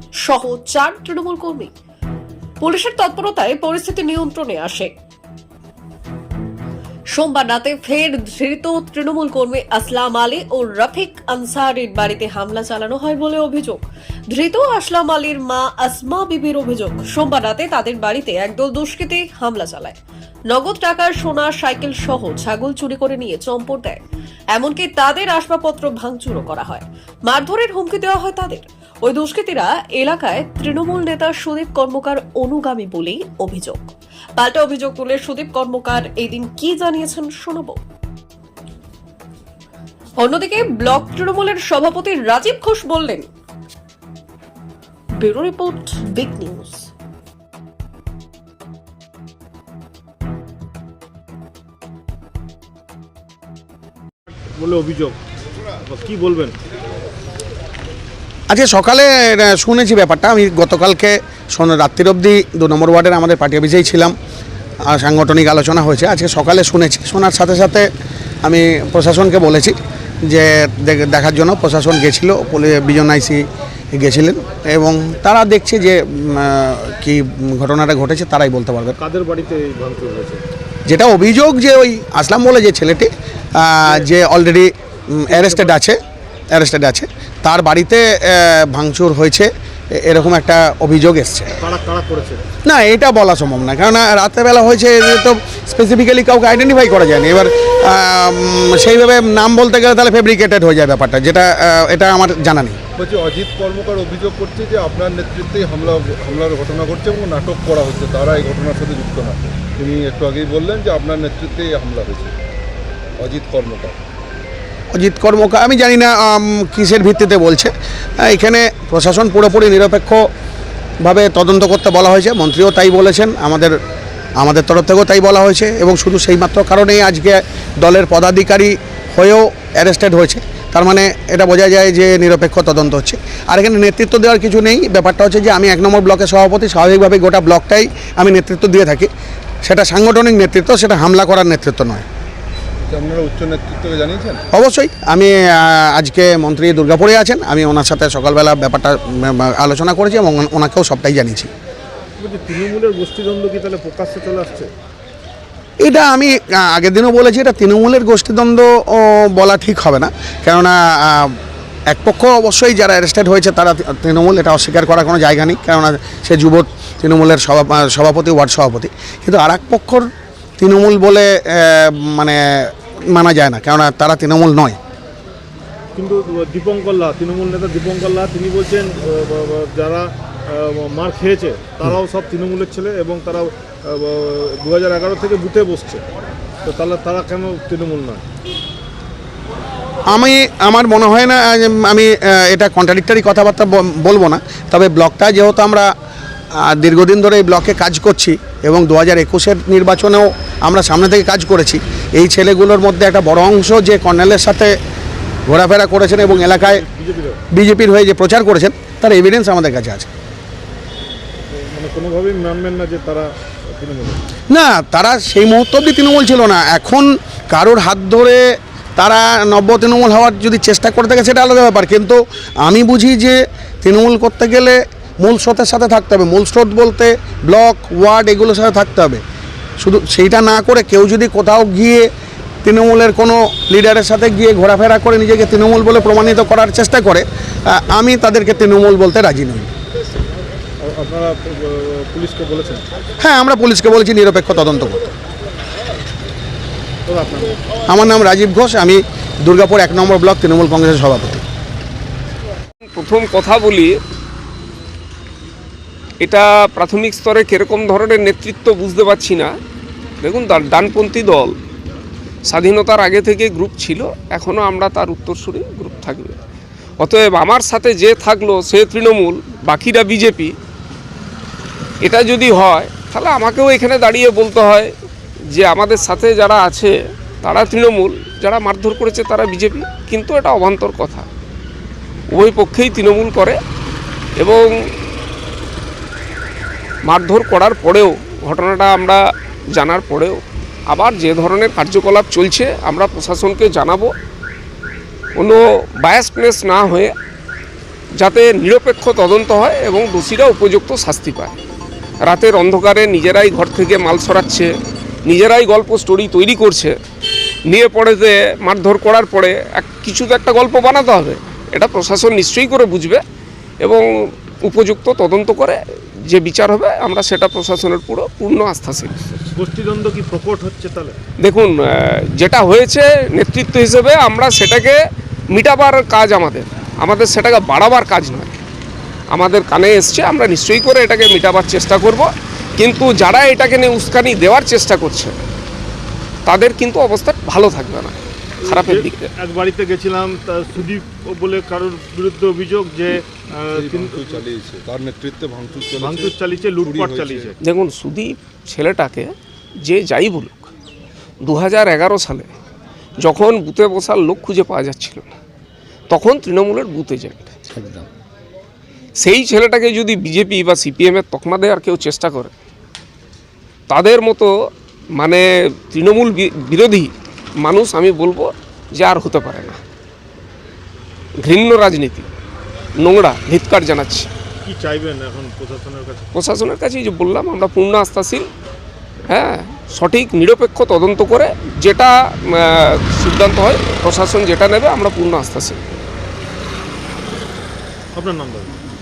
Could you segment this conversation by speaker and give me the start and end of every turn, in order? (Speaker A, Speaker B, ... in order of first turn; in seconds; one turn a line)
Speaker A: 0.2-1.7
Speaker A: 2.6-4.9
Speaker A: 7.1-20.0
Speaker A: 20.5-24.0
Speaker A: 24.6-37.8
Speaker A: 40.2-43.3
Speaker A: 45.2-46.9
Speaker B: 54.6-55.1
Speaker B: 56.0-56.5
Speaker C: 58.5-64.1
Speaker C: 64.9-67.9
Speaker C: 68.4-73.4
Speaker C: 73.9-79.0
Speaker C: 80.9-86.0
Speaker C: 86.5-91.5
Speaker C: 92.7-102.8
Speaker D: 103.0-112.3
Speaker D: 113.2-114.0
Speaker C: 114.9-120.2
Speaker C: 121.0-123.7
Speaker C: 124.4-139.1
Speaker C: 139.6-142.1
Speaker D: 142.9-144.4
Speaker C: 144.5-151.5
Speaker B: 152.2-153.7
Speaker C: 155.8-161.4
Speaker C: 161.9-170.1
Speaker C: 170.6-174.8
Speaker B: 176.0-178.6
Speaker B: 181.0-181.8
Speaker B: 182.4-182.9
Speaker B: 185.5-186.0
Speaker B: 186.7-187.4
Speaker C: 190.1-195.9
Speaker C: 196.6-204.7
Speaker C: 205.5-206.8
Speaker C: 207.5-210.1
Speaker B: 211.8-212.4
Speaker C: 214.5-229.2
Speaker C: 229.8-232.1
Speaker C: 232.6-239.7
Speaker C: 243.2-245.0
Speaker B: 247.1-247.4
Speaker C: 247.9-251.4
Speaker E: 252.9-253.9
Speaker E: 256.2-259.5
Speaker E: 260.2-261.5
Speaker E: 262.5-266.4
Speaker E: 267.0-270.5
Speaker E: 272.0-274.9
Speaker E: 275.5-281.3
Speaker E: 282.3-283.6
Speaker E: 287.1-289.2
Speaker E: 289.7-294.1
Speaker E: 295.4-297.1
Speaker E: 298.2-301.5
Speaker E: 302.2-304.7
Speaker E: 305.3-306.9
Speaker E: 307.7-313.2
Speaker E: 314.7-319.4
Speaker B: 319.6-321.1
Speaker E: 321.4-325.0
Speaker E: 325.5-328.5
Speaker E: 329.3-335.4
Speaker E: 336.5-339.3
Speaker B: 338.9-343.1
Speaker D: 343.7-347.5
Speaker B: 346.0-347.5
Speaker E: 347.6-350.7
Speaker E: 351.4-352.5
Speaker E: 353.2-355.3
Speaker E: 356.1-357.5
Speaker E: 359.2-362.5
Speaker E: 363.9-364.5
Speaker E: 365.2-369.8
Speaker E: 371.4-372.3
Speaker E: 373.0-374.3
Speaker B: 374.7-376.2
Speaker E: 376.3-378.5
Speaker E: 379.3-386.0
Speaker B: 388.2-388.7